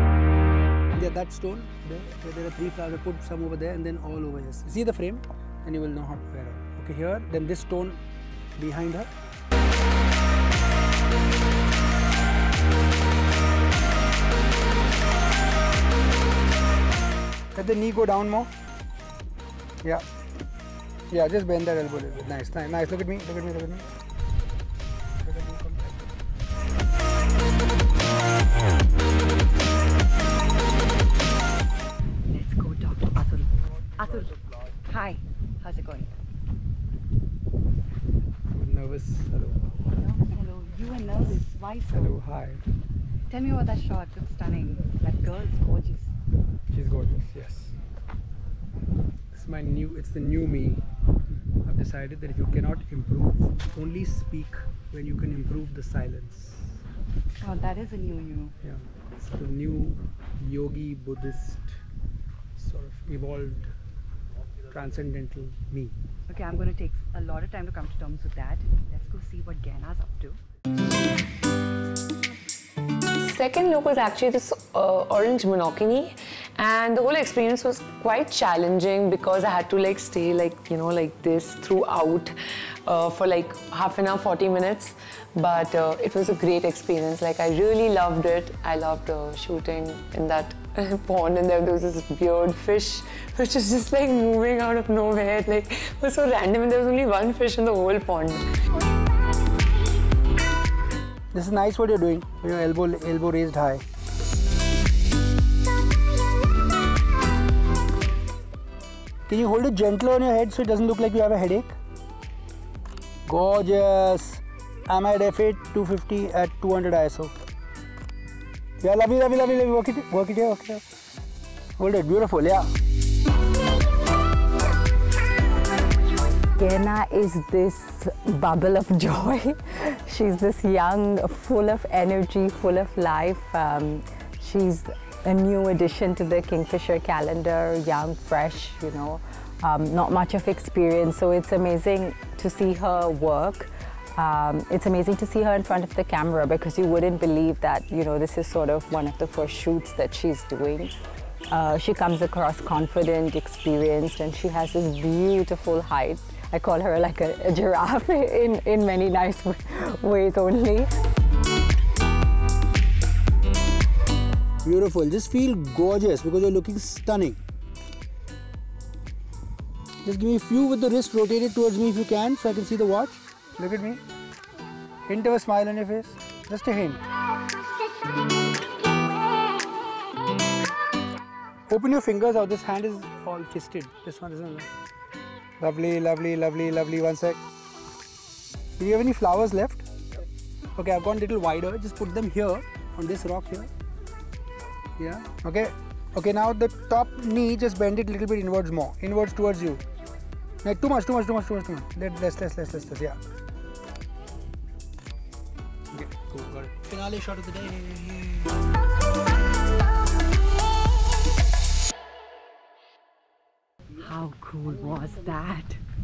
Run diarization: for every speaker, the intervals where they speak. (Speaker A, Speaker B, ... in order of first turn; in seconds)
Speaker A: 0.9-8.0, 8.6-9.1, 17.5-18.5, 21.1-23.9, 25.2-26.1, 38.5-39.6, 41.9-42.6, 46.7-47.7, 49.3-50.8, 51.6-56.8, 58.6-61.8, 62.5-63.7, 64.7-66.0, 101.3-103.8, 109.3-111.7, 113.2-117.3, 118.8-120.8, 121.8-122.7, 164.6-167.4, 170.0-174.0, 175.1-177.0, 181.7-184.7, 185.6-187.4, 188.8-189.8, 190.8-193.7, 195.0-199.8, 200.6-203.2, 205.9-208.6
Speaker B: 32.3-36.1, 39.9-42.2, 43.3-46.1, 57.4-58.5, 66.3-70.4, 214.0-215.8
Speaker C: 73.2-82.3, 82.8-98.4
Speaker D: 126.6-150.9, 151.5-160.9